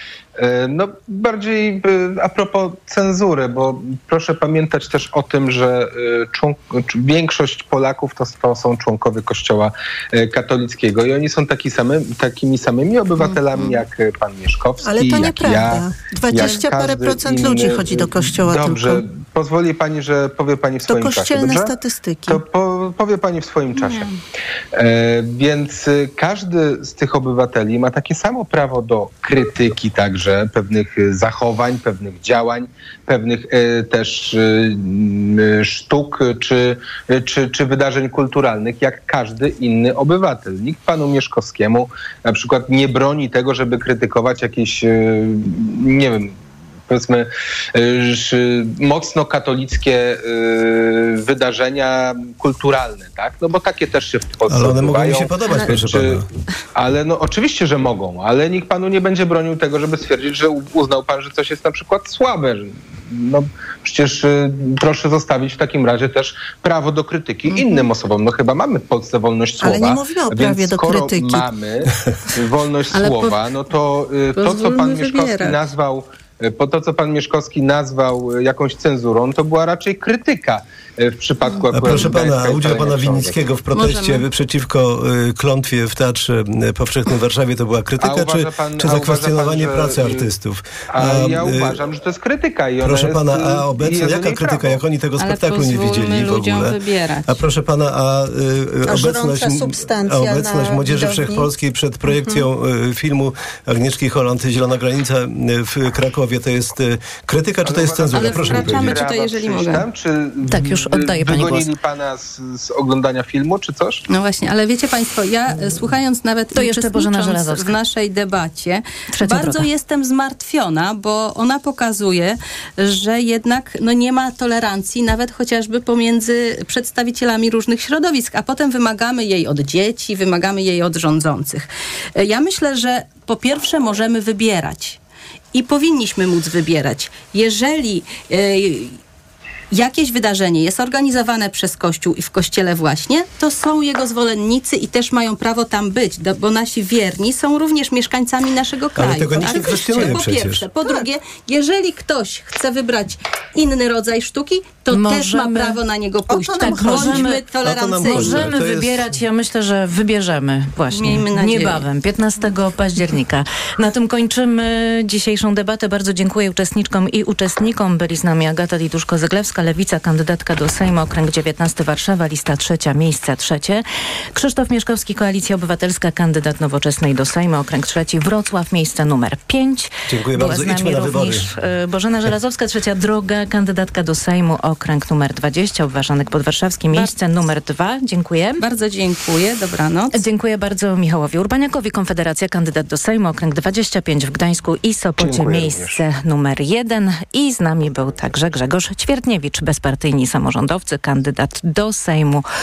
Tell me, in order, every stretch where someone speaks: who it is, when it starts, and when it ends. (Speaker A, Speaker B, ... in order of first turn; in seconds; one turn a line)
Speaker A: 0.4-21.7
Speaker B: 14.8-19.0
Speaker B: 20.9-22.4
Speaker A: 22.3-24.1
Speaker C: 23.8-24.1
Speaker A: 24.8-56.2
Speaker D: 54.5-56.3
Speaker A: 56.8-83.4
Speaker C: 67.5-67.9
Speaker B: 69.6-71.5
Speaker C: 72.9-73.4
Speaker C: 74.4-75.7
Speaker C: 81.5-82.2
Speaker D: 81.7-91.8
Speaker C: 83.7-84.3
Speaker A: 88.0-90.2
Speaker A: 90.9-94.8
Speaker D: 92.8-109.0
Speaker C: 95.2-97.5
Speaker B: 98.9-101.5
Speaker A: 107.7-114.0
Speaker C: 108.1-109.9
Speaker E: 110.5-111.7
Speaker C: 114.1-135.0
Speaker E: 116.5-117.8
Speaker E: 119.1-119.7
Speaker C: 135.5-139.0
Speaker C: 139.7-158.5
Speaker D: 149.0-150.7
Speaker E: 154.9-155.8
Speaker B: 156.3-157.2
Speaker E: 156.6-157.5
Speaker D: 157.4-159.1
Speaker E: 158.0-188.6
Speaker C: 160.9-161.9
Speaker D: 180.1-181.5
Speaker C: 188.6-190.2
Speaker E: 190.1-202.4
Speaker A: 195.2-196.0